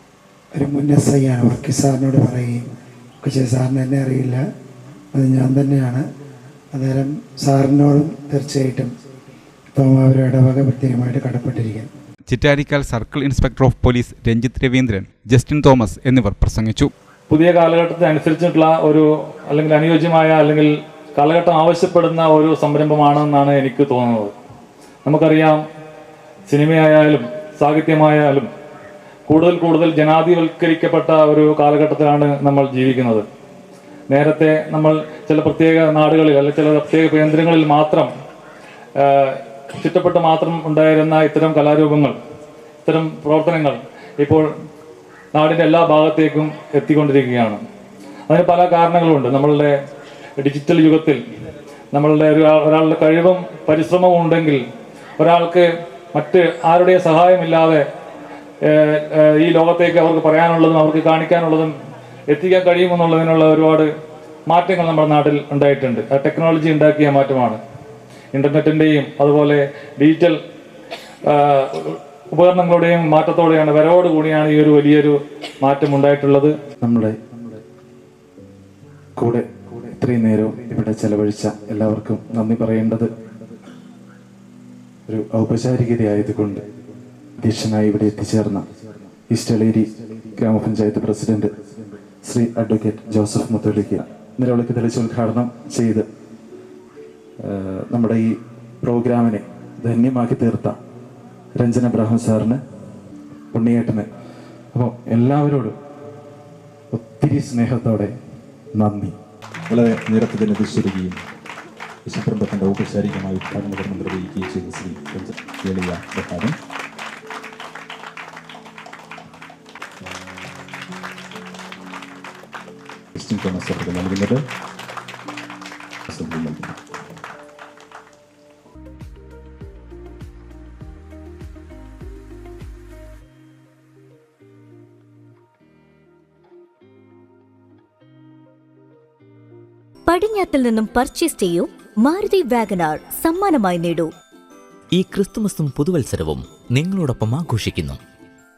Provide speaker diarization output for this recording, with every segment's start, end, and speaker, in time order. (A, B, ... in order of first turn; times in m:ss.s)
0:00.6-0:02.6 A
0:03.2-0:04.4 A
0:05.2-0:06.0 A
0:06.7-0:08.9 A
0:09.8-0:11.9 A
0:12.3-0:16.9 B
0:17.3-0:24.3 C
0:25.0-0:25.6 C
0:26.5-0:28.5 C
0:29.3-0:33.2 C
0:34.1-0:38.1 C
0:39.0-0:42.2 C
0:42.8-0:44.4 C
0:45.3-0:47.6 C
0:48.3-0:49.7 C
0:50.4-0:51.2 C
0:51.9-0:54.6 C
0:55.2-0:57.8 C
0:58.7-1:01.7 C
1:02.3-1:03.9 C
1:04.5-1:07.6 C
1:08.3-1:10.4 C
1:11.3-1:16.5 C
1:16.8-1:17.6 D
1:19.2-1:23.1 D
1:25.1-1:26.6 D
1:27.4-1:28.7 D
1:29.3-1:31.5 D
1:32.2-1:36.1 D
1:37.4-1:40.8 D
1:41.6-1:42.6 D
1:43.5-1:44.1 D
1:44.7-1:45.7 D
1:46.9-1:48.1 D
1:48.8-1:49.2 D
1:49.7-1:51.2 E
1:52.1-1:56.6 E
2:03.2-2:04.4 E
2:06.1-2:06.8 E
2:20.1-2:24.1 F
2:24.9-2:28.0 G